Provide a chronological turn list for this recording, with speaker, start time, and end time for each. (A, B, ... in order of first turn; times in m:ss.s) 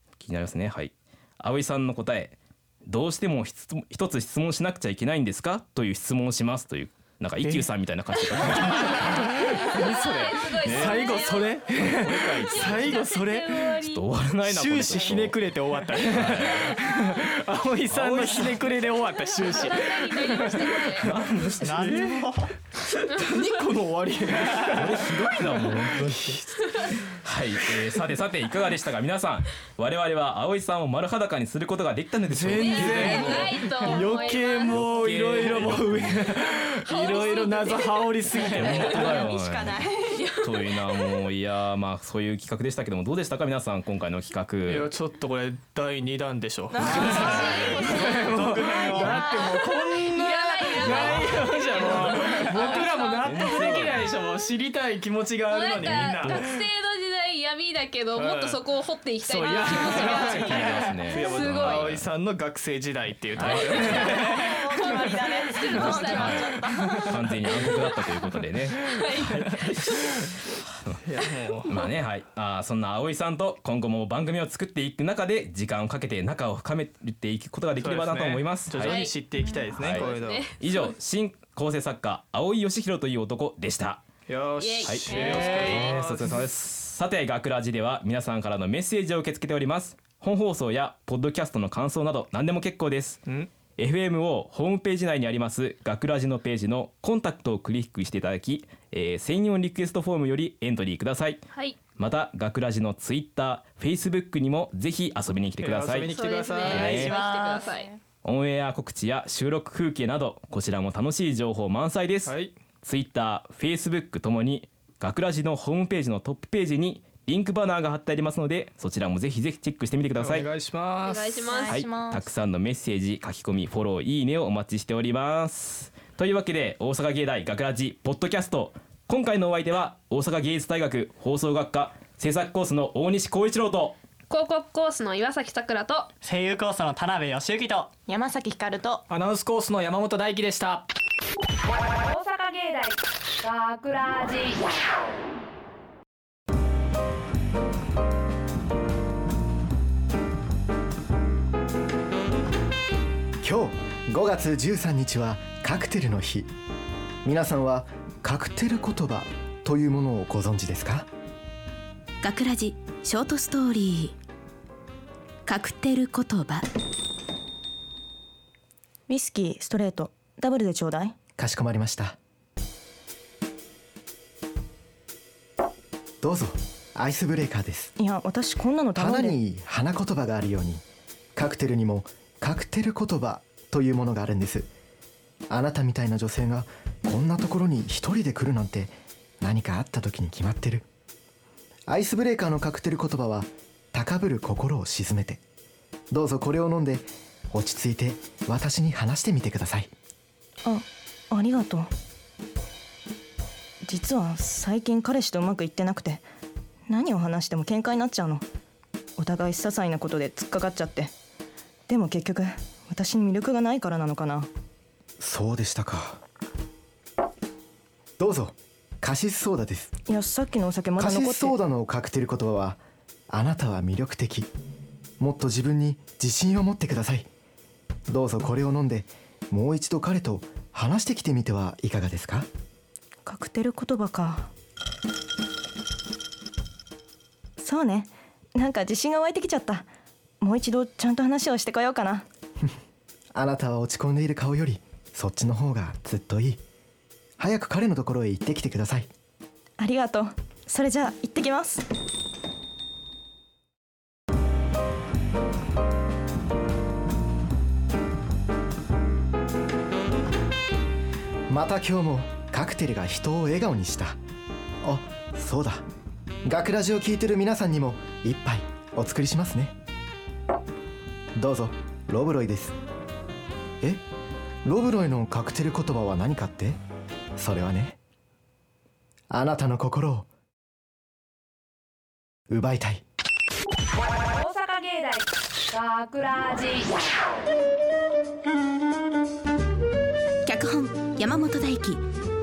0:00.2-0:09.5 A
0:07.4-0:07.7 B
0:08.5-0:13.8 B
0:08.7-0:14.0 C
0:10.6-0:13.0 A
0:13.8-0:15.4 A
0:14.4-0:22.2 B
0:16.0-0:16.9 A
0:17.9-0:18.7 A
0:19.4-0:21.1 C
0:21.0-0:22.2 A
0:21.6-0:22.5 D
0:22.8-0:25.1 B
0:23.1-0:23.5 C
0:24.7-0:26.4 A
0:25.8-0:26.6 B
0:26.7-0:27.0 C
0:27.1-0:36.4 A
0:32.3-0:39.3 B
0:32.6-0:35.4 C
0:36.9-0:39.3 C
0:38.6-0:39.8 A
0:39.0-0:39.9 E
0:39.9-0:41.1 C
0:40.4-0:44.9 A
0:44.7-0:56.6 B
0:46.8-0:49.5 D
0:46.8-0:48.4 A
0:46.8-0:48.3 C
0:48.9-0:54.2 C
0:50.8-0:54.1 A
0:55.5-1:01.9 C
0:55.8-0:56.5 A
0:58.2-0:58.6 B
0:59.2-1:07.0 B
0:59.6-1:02.1 A
1:03.4-1:04.4 A
1:03.4-1:10.3 C
1:05.7-1:09.3 A
1:09.4-1:09.9 B
1:11.0-1:11.8 B
1:11.7-1:19.1 A
1:17.8-1:20.5 B
1:18.8-1:19.2 C
1:19.7-1:24.0 A
1:19.8-1:21.0 C
1:24.3-1:26.4 B
1:24.6-1:25.9 C
1:24.8-1:33.2 A
1:33.8-1:41.4 A
1:42.0-1:46.1 A
1:45.6-1:47.2 B
1:46.1-1:47.9 C
1:46.7-1:47.2 A
1:46.7-1:47.8 D
1:48.2-2:00.5 A
1:52.3-1:52.5 B
2:00.2-2:01.6 B
2:01.0-2:01.9 C
2:01.7-2:14.0 A
2:01.7-2:02.1 E
2:14.3-2:16.1 C
2:16.2-2:18.0 D
2:18.1-2:19.0 E
2:19.1-2:20.9 B
2:22.0-2:24.7 F
2:33.4-2:36.5 G
2:37.2-2:41.1 G
2:42.2-2:44.2 H
2:45.5-2:46.7 H
2:49.1-2:51.2 E
2:51.4-2:52.2 G
2:56.2-2:58.0 G
2:58.0-2:59.4 E
2:58.9-3:00.8 G
3:01.4-3:04.7 G
3:05.5-3:10.8 G
3:11.9-3:15.4 G
3:16.1-3:19.9 G
3:20.6-3:21.9 E
3:23.9-3:26.3 E
3:26.9-3:28.4 E
3:29.2-3:31.1 E
3:31.9-3:34.5 E
3:35.2-3:36.2 G
3:38.2-3:40.0 G
3:40.1-3:41.6 E
3:41.0-3:44.5 G
3:45.2-3:47.3 G
3:48.1-3:52.5 G
3:53.2-3:54.5 E
3:57.6-3:59.9 E
4:00.4-4:02.3 E
4:03.3-4:06.6 G
4:07.4-4:09.1 G
4:09.8-4:11.9 E
4:21.5-4:24.2 G
4:24.8-4:25.8 G
4:26.4-4:29.7 G
4:31.4-4:32.8 G
4:34.6-4:36.8 G
4:37.4-4:38.0 G
4:39.3-4:40.3 G
4:42.5-4:43.0 G
4:44.3-4:47.0 F
4:50.4-4:52.1 H